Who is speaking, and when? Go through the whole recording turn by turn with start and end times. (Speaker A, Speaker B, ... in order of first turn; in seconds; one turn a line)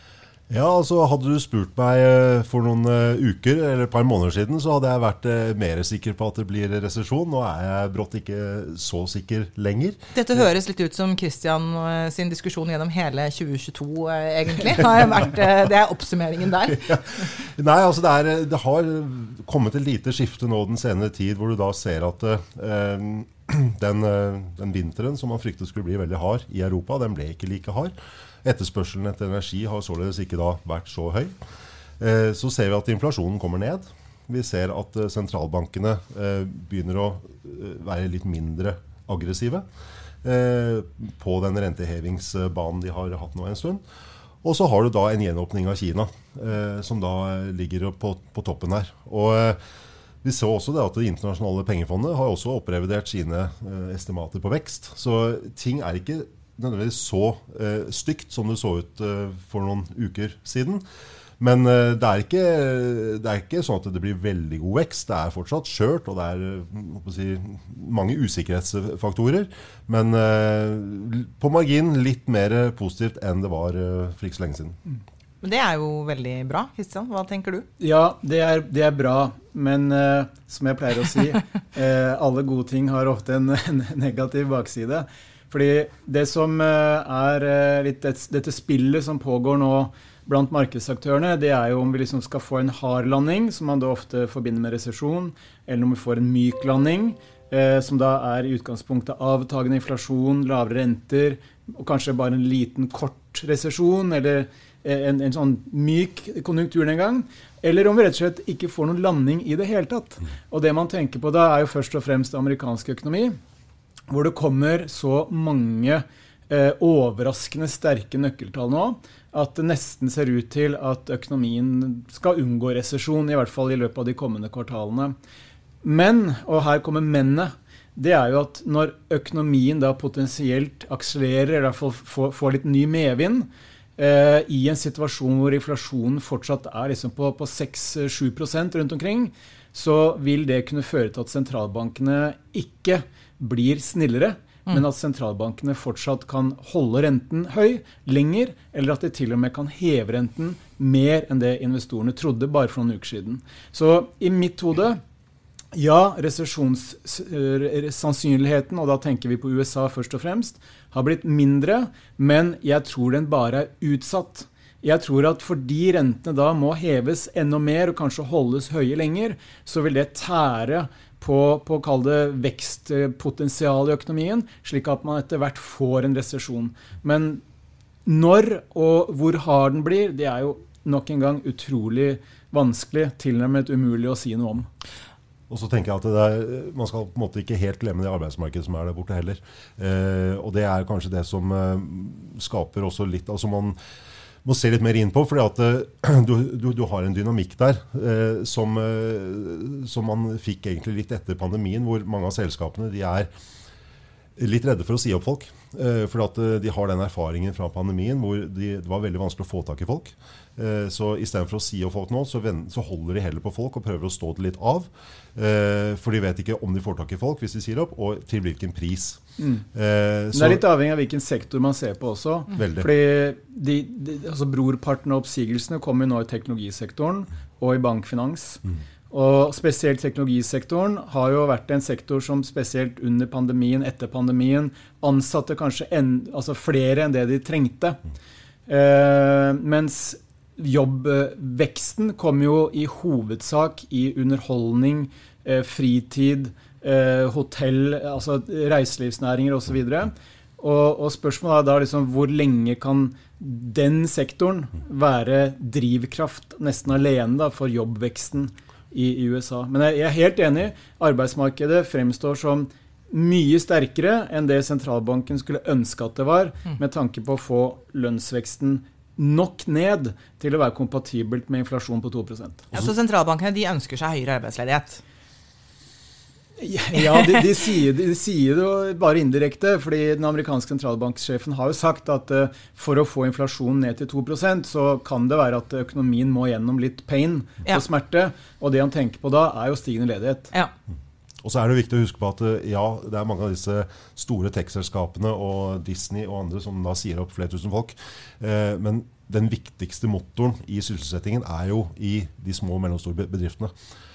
Speaker A: 0.5-10.0
Speaker B: 10.1-17.0
Speaker A: 16.8-27.9
Speaker A: 28.4-31.3
Speaker A: 32.0-39.6
Speaker A: 40.2-43.8
Speaker A: 44.4-49.6
Speaker A: 50.2-60.8
Speaker A: 61.4-74.8
Speaker B: 75.4-77.7
Speaker C: 77.8-113.4
Speaker C: 114.1-125.2
Speaker C: 125.8-155.0
Speaker C: 155.7-177.4
Speaker C: 178.1-184.7
Speaker A: 185.5-193.8
Speaker A: 194.4-203.3
Speaker A: 204.4-219.2
Speaker C: 219.4-219.7
Speaker A: 219.7-220.6
Speaker C: 220.3-238.0
Speaker A: 222.5-222.9
Speaker C: 238.7-272.7
Speaker B: 272.7-275.0
Speaker C: 276.6-290.5
Speaker B: 277.0-277.4
Speaker A: 291.4-303.7